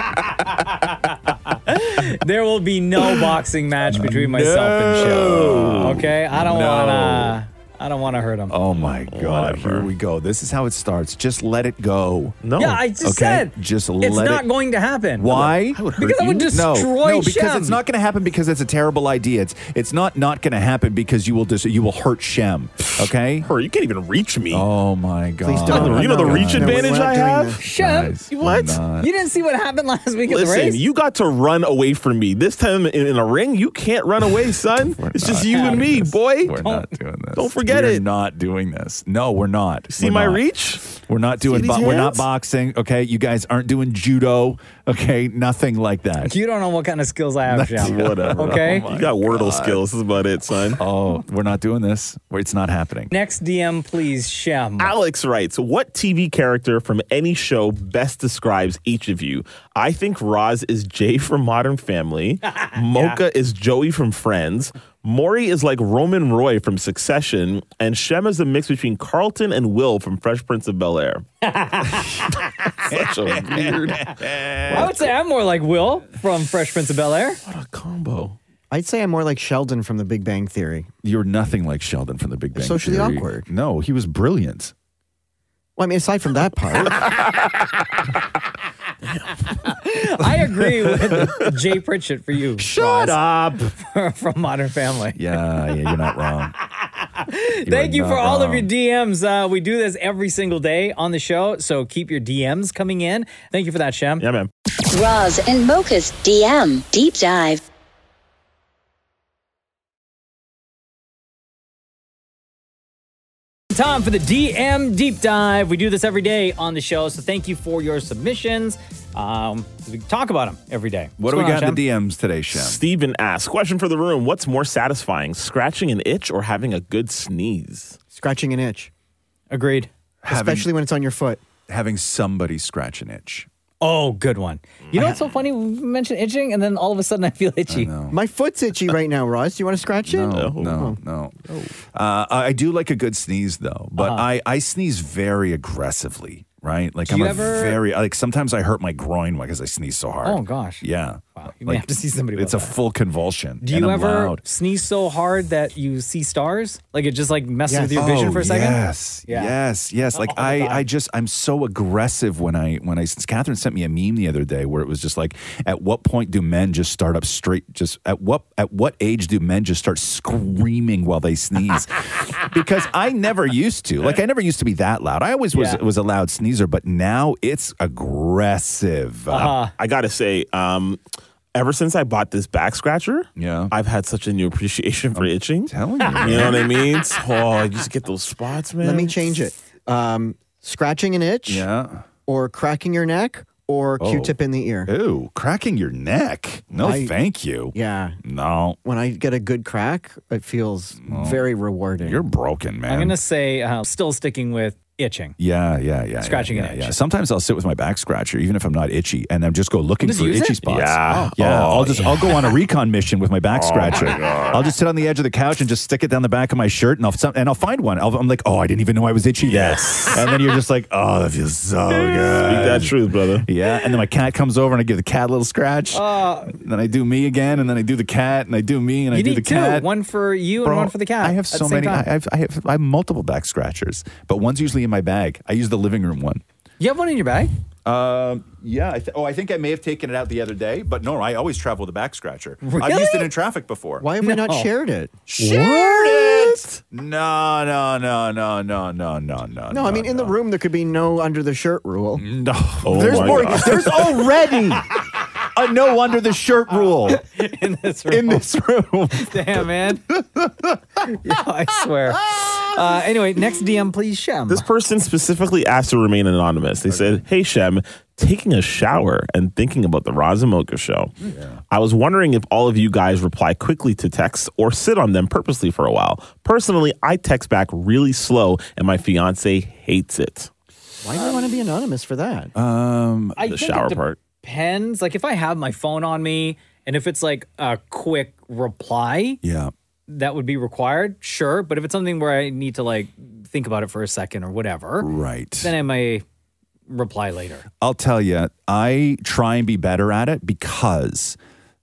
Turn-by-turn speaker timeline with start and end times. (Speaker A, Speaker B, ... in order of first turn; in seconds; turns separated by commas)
Speaker A: 0.5-8.6, Speaker B: 3.9-7.4, Speaker C: 5.3-6.0, Speaker B: 8.5-14.5, Speaker C: 9.1-9.9, Speaker C: 12.4-12.8, Speaker A: 12.6-17.8, Speaker B: 15.1-23.5, Speaker C: 15.7-16.5, Speaker C: 23.4-24.7, Speaker B: 24.5-26.9, Speaker D: 25.4-27.6, Speaker C: 25.7-27.6, Speaker A: 27.6-28.2, Speaker B: 27.8-29.1, Speaker C: 28.3-28.8, Speaker A: 29.0-30.8, Speaker C: 30.3-36.6, Speaker B: 34.8-46.3, Speaker A: 35.5-35.8, Speaker A: 36.6-36.9, Speaker C: 37.3-38.0, Speaker C: 39.9-40.9, Speaker C: 41.4-42.3, Speaker A: 46.2-48.9, Speaker B: 47.5-49.8, Speaker C: 47.8-50.8, Speaker B: 50.7-53.1, Speaker A: 53.1-54.9, Speaker C: 54.8-71.2, Speaker A: 62.6-63.2, Speaker A: 71.4-72.4, Speaker C: 72.7-75.0, Speaker B: 72.9-75.0, Speaker A: 74.7-77.4, Speaker C: 77.5-78.4, Speaker D: 78.7-80.9, Speaker B: 81.0-84.7, Speaker D: 82.5-83.5, Speaker D: 85.8-87.1, Speaker C: 89.1-89.5, Speaker A: 89.6-93.2, Speaker B: 90.2-91.5, Speaker B: 92.6-93.7, Speaker A: 93.8-95.2, Speaker B: 95.1-96.5, Speaker A: 97.0-104.2, Speaker B: 97.6-98.7, Speaker C: 104.2-104.5, Speaker E: 104.9-107.6, Speaker A: 113.7-121.8, Speaker B: 121.2-122.8, Speaker C: 122.5-128.0, Speaker D: 128.1-128.9, Speaker A: 129.5-129.9, Speaker B: 130.2-130.7, Speaker D: 130.3-131.4, Speaker B: 131.7-133.5, Speaker A: 133.8-137.9, Speaker C: 134.9-135.2, Speaker B: 137.7-138.2, Speaker D: 138.1-141.0, Speaker B: 140.1-141.3, Speaker C: 140.3-140.9, Speaker C: 141.5-141.7, Speaker B: 141.9-154.4, Speaker A: 143.9-144.3, Speaker A: 147.0-147.8, Speaker A: 150.2-150.8, Speaker A: 151.3-152.8, Speaker A: 153.6-159.5, Speaker D: 157.7-158.2, Speaker B: 157.9-179.5, Speaker A: 160.1-160.8, Speaker A: 175.5-175.8, Speaker A: 179.3-179.7, Speaker C: 179.8-181.0, Speaker C: 181.5-189.3, Speaker B: 183.4-183.7, Speaker B: 185.1-186.7, Speaker A: 186.0-186.4, Speaker D: 188.8-191.7, Speaker B: 191.5-192.1, Speaker D: 192.2-194.9, Speaker B: 194.0-198.8, Speaker D: 196.8-197.2, Speaker D: 197.7-198.2, Speaker D: 198.8-202.2, Speaker B: 201.0-201.4, Speaker B: 202.0-203.2, Speaker A: 202.8-205.3, Speaker B: 205.4-229.9, Speaker A: 206.2-206.9, Speaker A: 210.0-210.6, Speaker C: 210.6-212.5, Speaker C: 213.5-214.7, Speaker C: 219.5-220.2, Speaker A: 221.9-222.6, Speaker C: 222.4-223.5, Speaker A: 225.9-226.6, Speaker A: 229.1-232.1, Speaker B: 230.6-236.4, Speaker A: 236.8-237.5, Speaker B: 237.8-244.1, Speaker A: 242.6-243.3, Speaker D: 244.0-245.1, Speaker A: 244.2-244.7, Speaker B: 245.3-250.3, Speaker C: 245.4-246.8, Speaker D: 249.7-252.2, Speaker B: 252.1-257.2, Speaker C: 252.8-254.1, Speaker A: 257.0-258.4, Speaker B: 258.1-261.1, Speaker A: 259.1-260.0, Speaker A: 261.0-264.6, Speaker B: 262.1-262.8, Speaker C: 264.5-271.1, Speaker B: 266.9-267.2, Speaker B: 271.2-271.6, Speaker C: 271.7-280.5, Speaker D: 281.0-282.5, Speaker B: 282.6-283.4, Speaker A: 283.4-289.4, Speaker C: 283.4-284.2, Speaker B: 289.4-289.7, Speaker A: 290.1-295.1, Speaker B: 295.0-295.7, Speaker A: 295.6-296.2, Speaker A: 296.9-297.6, Speaker B: 297.8-301.4